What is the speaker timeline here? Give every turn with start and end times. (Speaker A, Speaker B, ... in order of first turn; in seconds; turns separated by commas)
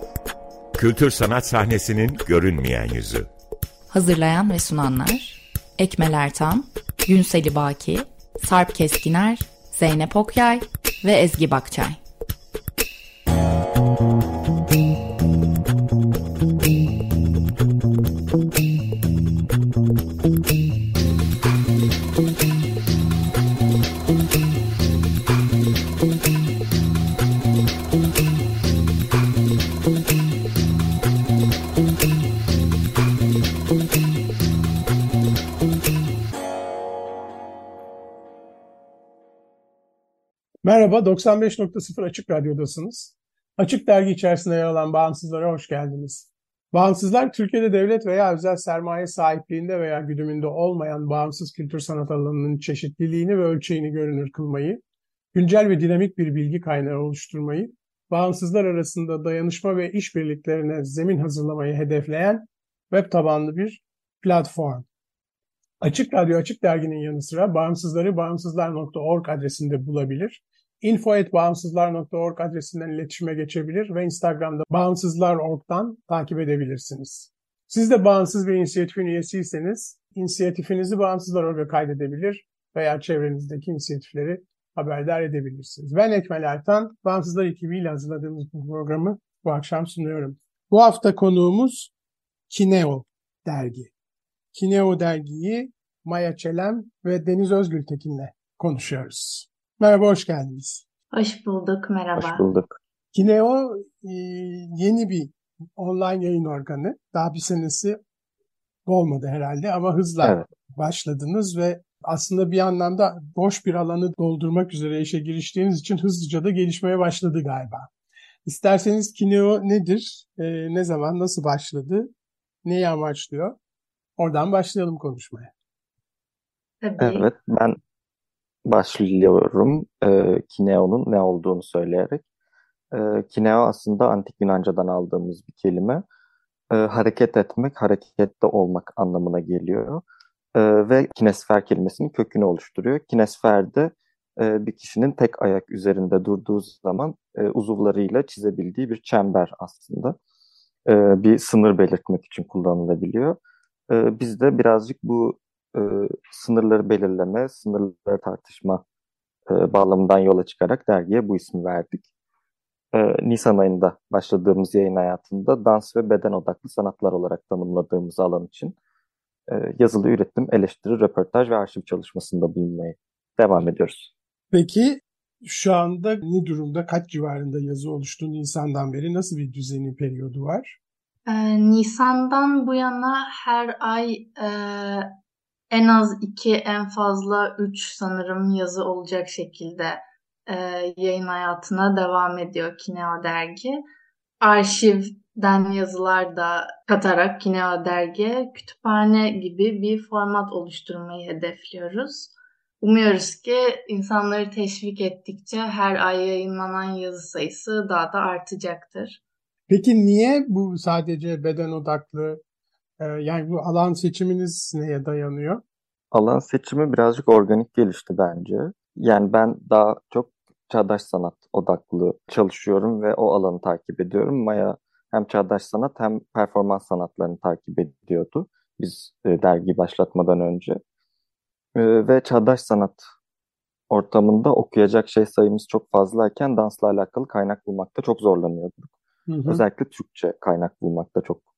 Speaker A: 0.8-3.3, Speaker B: 3.9-12.0, Speaker C: 40.6-54.8, Speaker C: 55.3-64.9, Speaker C: 65.8-91.9, Speaker C: 92.5-93.9, Speaker C: 94.5-100.8, Speaker D: 101.1-102.5, Speaker E: 102.2-102.8, Speaker C: 103.1-108.0, Speaker C: 108.9-117.9, Speaker C: 118.5-122.1, Speaker C: 122.6-123.6, Speaker C: 124.2-125.5, Speaker D: 126.8-127.3, Speaker E: 127.0-127.8, Speaker E: 128.7-132.2, Speaker E: 132.9-136.0, Speaker E: 136.7-140.0, Speaker E: 140.6-150.2, Speaker E: 150.9-153.4, Speaker E: 153.9-158.8, Speaker E: 159.5-162.0, Speaker E: 162.9-168.8, Speaker E: 169.5-174.1, Speaker C: 174.5-180.8, Speaker D: 181.3-185.1, Speaker D: 185.7-193.8, Speaker D: 194.4-209.2, Speaker C: 209.7-212.4, Speaker C: 213.0-215.6, Speaker E: 216.1-230.8, Speaker E: 231.8-233.0, Speaker E: 233.9-238.9, Speaker C: 239.3-239.6, Speaker E: 239.5-241.4